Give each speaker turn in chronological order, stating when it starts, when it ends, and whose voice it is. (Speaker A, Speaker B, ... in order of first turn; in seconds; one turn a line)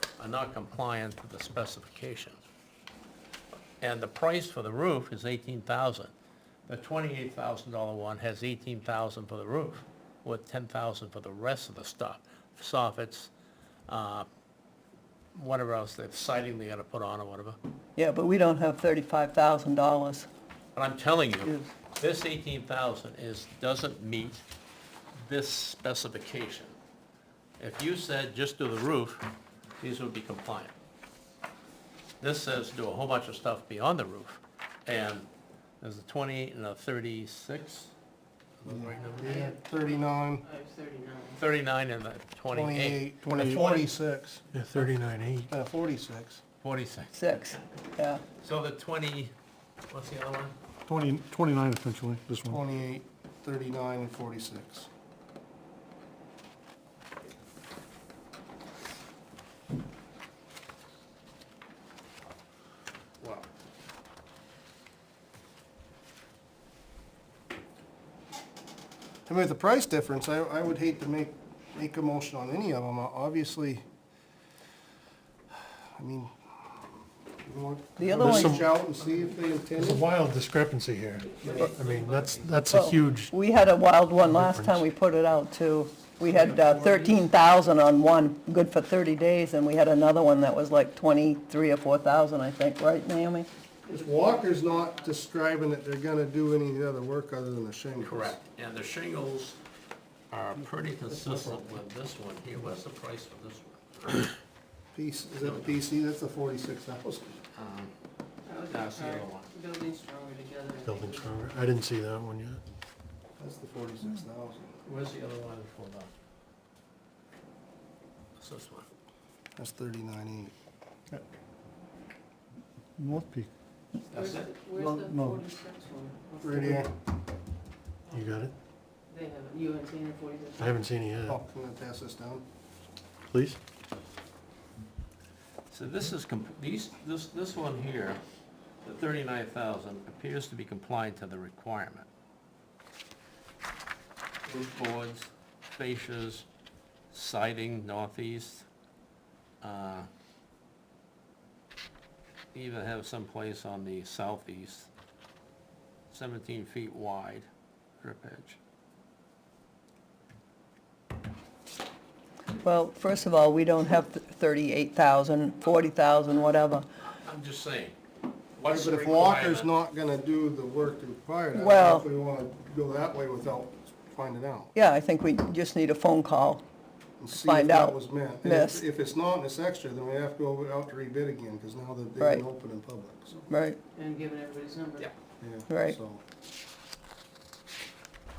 Speaker A: 0.2-2.4
Speaker A: 3.8-6.1
Speaker A: 6.7-13.3
Speaker A: 13.9-14.3
Speaker A: 15.3-17.6
Speaker B: 18.0-20.3
Speaker A: 20.8-24.4
Speaker A: 25.2-26.8
Speaker A: 27.6-29.3
Speaker A: 29.8-30.7
Speaker A: 32.2-35.3
Speaker A: 35.8-37.9
Speaker A: 38.6-39.5
Speaker C: 38.6-40.5
Speaker D: 39.0-39.6
Speaker D: 40.4-41.4
Speaker A: 41.4-43.9
Speaker C: 42.5-44.9
Speaker E: 43.2-43.6
Speaker E: 44.5-45.5
Speaker C: 45.5-46.4
Speaker A: 46.6-47.8
Speaker B: 47.1-48.2
Speaker A: 48.4-49.3
Speaker A: 49.9-50.5
Speaker E: 50.9-52.6
Speaker C: 52.5-54.9
Speaker A: 63.2-63.5
Speaker C: 69.2-73.8
Speaker C: 75.5-76.9
Speaker C: 77.4-80.1
Speaker B: 78.0-78.6
Speaker E: 78.2-78.7
Speaker E: 79.7-83.3
Speaker A: 81.3-83.1
Speaker B: 82.7-93.5
Speaker E: 84.2-84.9
Speaker A: 86.3-86.9
Speaker D: 86.3-87.2
Speaker D: 93.9-95.2
Speaker C: 93.9-98.4
Speaker A: 98.0-99.6
Speaker A: 100.3-104.4
Speaker C: 104.9-107.4
Speaker A: 105.4-105.8
Speaker A: 107.5-107.9
Speaker D: 108.5-111.5
Speaker A: 108.7-109.5
Speaker E: 110.8-112.6
Speaker C: 113.4-114.7
Speaker A: 114.8-116.1
Speaker A: 118.4-118.9
Speaker C: 119.5-120.5
Speaker E: 123.0-123.5
Speaker D: 124.1-126.9
Speaker A: 124.1-124.5
Speaker E: 124.8-125.4
Speaker C: 126.4-126.9
Speaker E: 128.1-128.5
Speaker D: 129.1-130.7
Speaker E: 130.6-131.4
Speaker C: 131.3-132.4
Speaker E: 133.3-133.6
Speaker A: 135.7-138.2
Speaker A: 138.8-142.1
Speaker A: 144.5-146.5
Speaker A: 147.1-148.7
Speaker A: 149.6-150.1
Speaker A: 152.5-154.9
Speaker A: 156.1-157.5
Speaker A: 158.0-158.6
Speaker B: 162.6-166.8
Speaker A: 167.2-167.9
Speaker A: 168.6-169.7
Speaker C: 168.7-174.7
Speaker B: 171.5-172.1
Speaker B: 174.8-176.6
Speaker C: 177.2-183.5
Speaker B: 177.3-178.8
Speaker B: 182.2-182.5
Speaker B: 183.5-183.8
Speaker D: 183.9-185.1
Speaker C: 185.4-186.2
Speaker B: 185.7-186.0